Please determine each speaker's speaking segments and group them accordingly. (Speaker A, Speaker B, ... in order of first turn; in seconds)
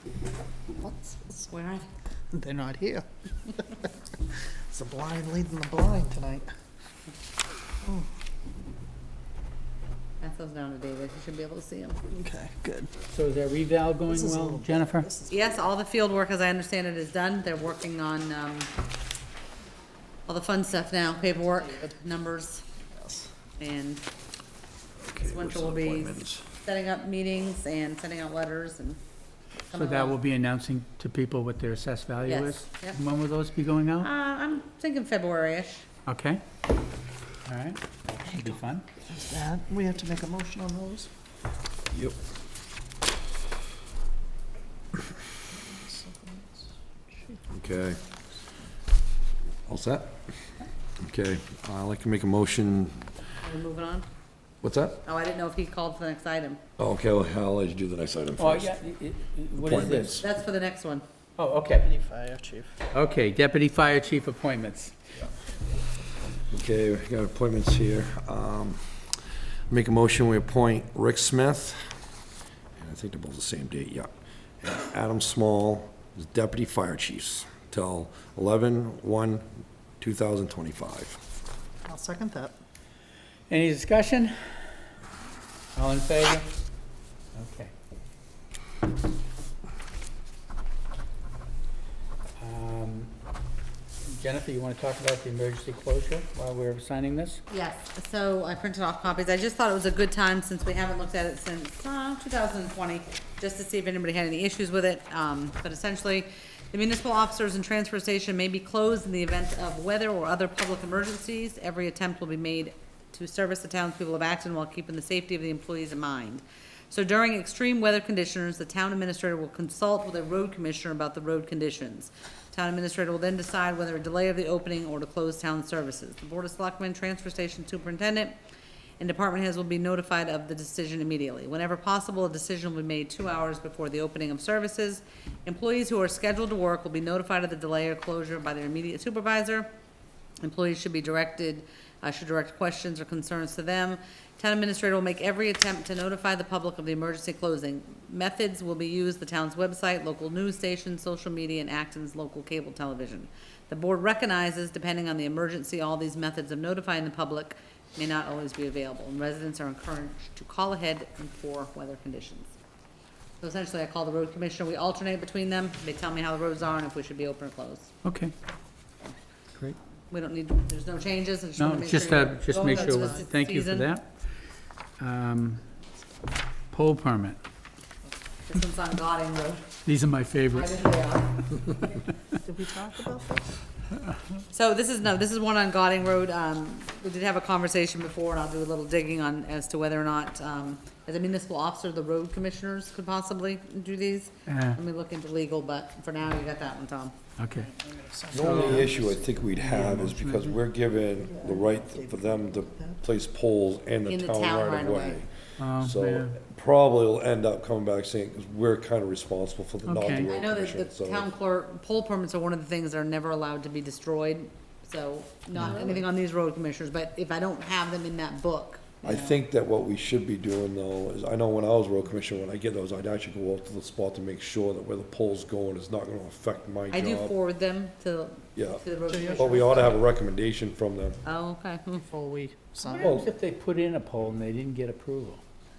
Speaker A: 0.8-1.5, 2.3-3.7, 4.7-6.5, 7.8-8.1, 12.1-12.9, 14.1-15.5, 22.9-23.3, 38.3-41.1, 45.4-47.4, 61.7-62.7, 81.8-82.5, 172.6-173.2, 182.4-183.5, 197.5-200.0, 201.2-203.0, 229.1-229.8, 232.1-233.2
Speaker B: 1.5-1.9, 10.2-12.0, 15.3-18.7, 20.3-22.6, 23.6-24.0, 25.2-29.0, 29.7-30.2, 32.2-33.0, 34.0-35.9, 53.4-54.0, 55.0-56.6, 60.2-61.0, 97.5-128.4, 129.0-139.7, 140.4-162.5, 163.4-167.9, 170.0-173.9, 178.4-179.7, 180.5-181.6, 184.5-197.1, 204.1-205.2, 210.2-219.3, 226.9-230.0, 231.2-232.1
Speaker C: 13.1-15.1, 29.7-34.1, 36.0-36.4, 37.4-38.9, 58.4-60.2, 61.4-61.9, 62.9-64.9, 83.5-84.3, 85.7-86.5, 87.3-87.7, 92.4-93.1, 94.1-97.4, 168.0-168.3, 171.6-174.3, 175.0-175.6, 176.7-177.4, 179.8-180.8, 194.5-194.8, 197.4-197.7, 198.3-198.9, 199.6-200.6, 205.6-206.3, 209.8-210.3, 232.8-235.4
Speaker D: 25.0-26.4, 41.9-42.2, 47.5-48.0, 49.7-50.2, 51.0-53.1, 54.6-55.0, 56.8-58.8, 59.5-60.2, 66.5-69.2, 69.7-71.9, 72.8-74.1, 74.6-79.5, 80.0-81.2, 198.3-211.3, 219.0-227.3, 228.6-228.8, 229.3-231.2